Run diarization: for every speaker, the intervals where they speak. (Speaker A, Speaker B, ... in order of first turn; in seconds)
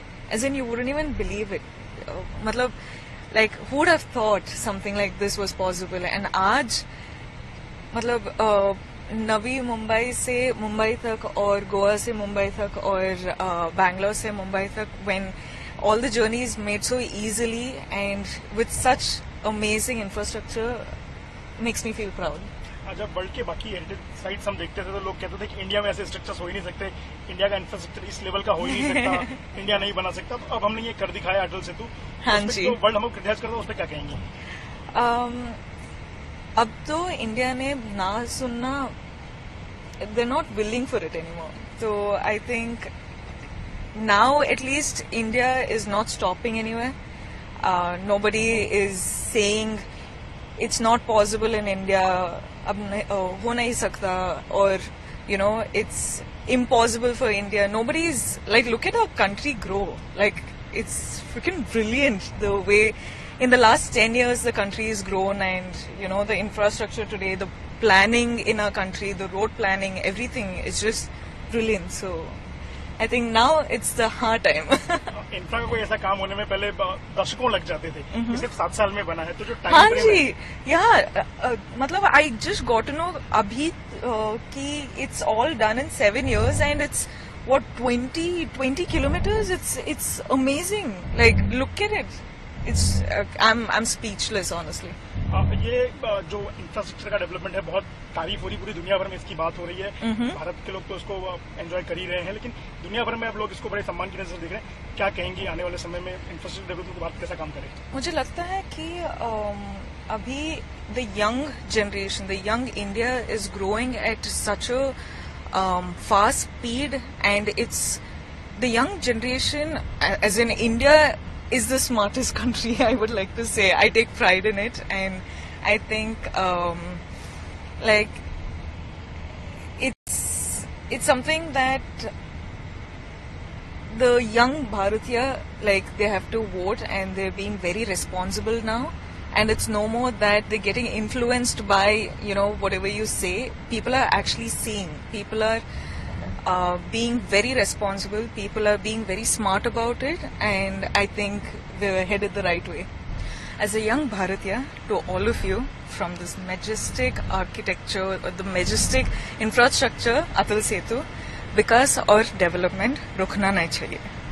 Speaker A: 0.3-2.7, 3.3-6.8, 7.9-20.9, 21.6-22.5, 28.7-29.3, 32.2-32.8, 34.9-35.6, 36.5-38.9, 40.0-42.9, 43.9-46.9, 47.6-49.8, 50.6-72.4, 73.0-75.1, 78.1-78.4, 79.7-95.0, 100.0-100.4, 107.9-114.9, 115.5-118.0, 118.5-127.0, 127.8-128.2, 129.8-132.1, 133.9-145.6, 146.4-152.9, 153.6-164.1
Speaker B: 22.9-34.2, 75.1-80.2, 95.3-107.8